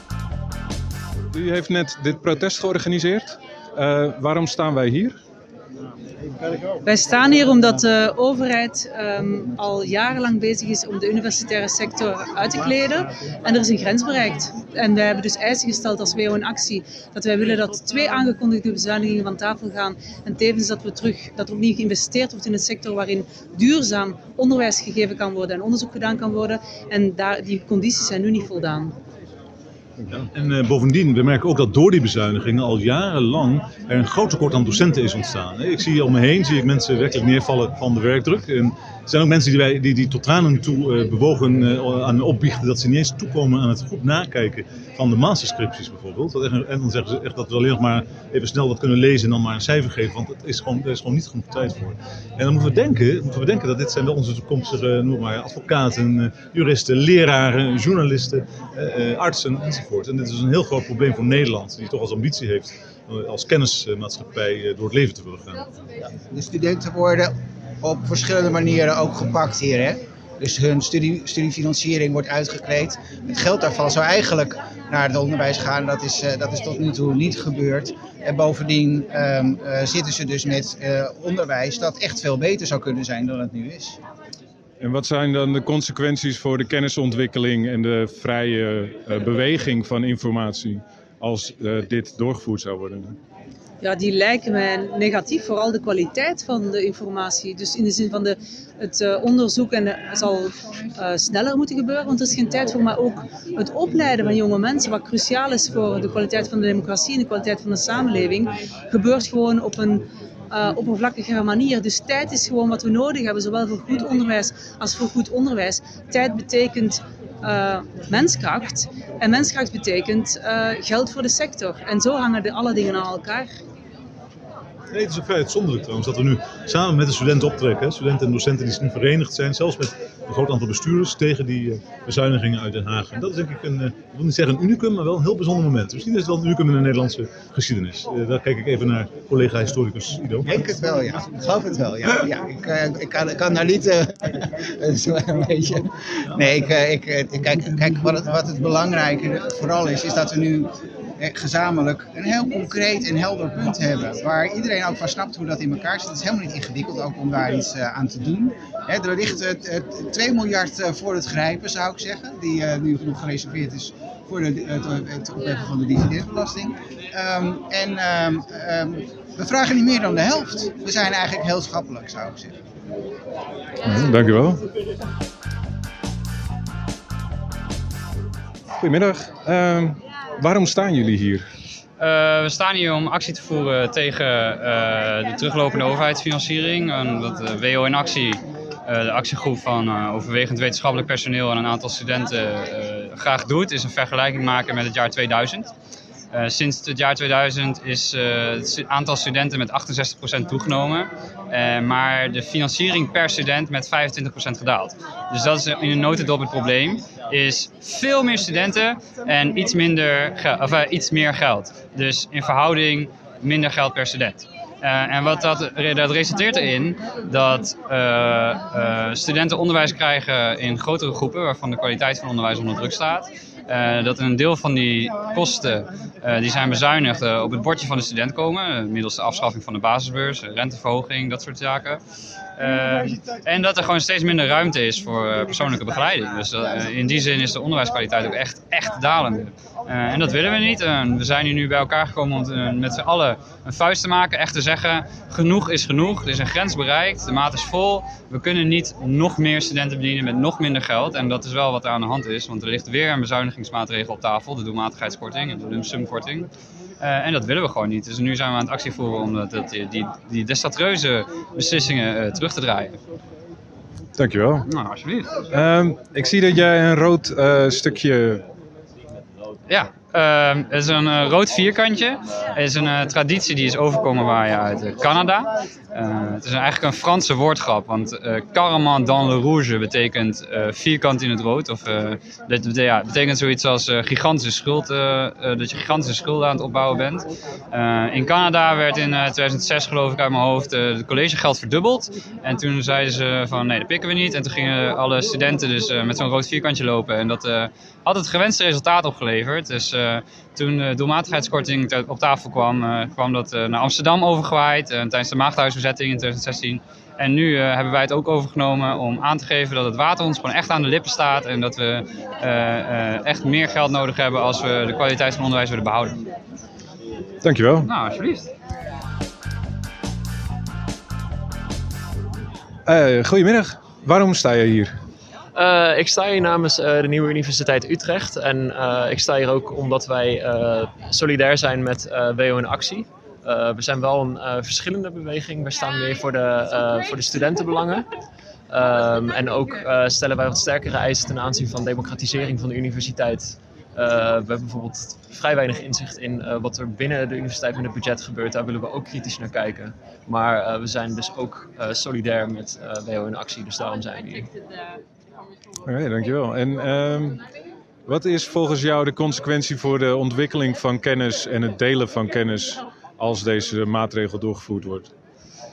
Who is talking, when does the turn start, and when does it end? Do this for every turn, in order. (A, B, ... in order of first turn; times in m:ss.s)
0:01.3-0:05.2 A
0:06.8-0:28.9 B
0:30.0-1:05.6 C
1:06.3-1:24.0 D
1:24.8-1:33.1 A
1:33.8-2:03.5 B
2:04.9-2:20.5 C
2:20.4-2:52.6 D
2:53.8-2:54.6 A
2:58.8-3:01.4 A
3:02.0-3:15.7 E
3:16.3-3:52.0 E
3:52.5-4:23.0 E
4:24.2-4:24.6 A
4:24.7-4:25.3 E
4:25.5-4:28.4 A
4:29.7-5:16.2 E
5:17.4-5:17.9 A
5:17.8-5:18.5 E
5:22.9-5:24.9 A
5:25.6-5:38.0 F
5:38.7-5:54.4 F
5:55.8-5:57.4 A
5:58.1-6:05.1 A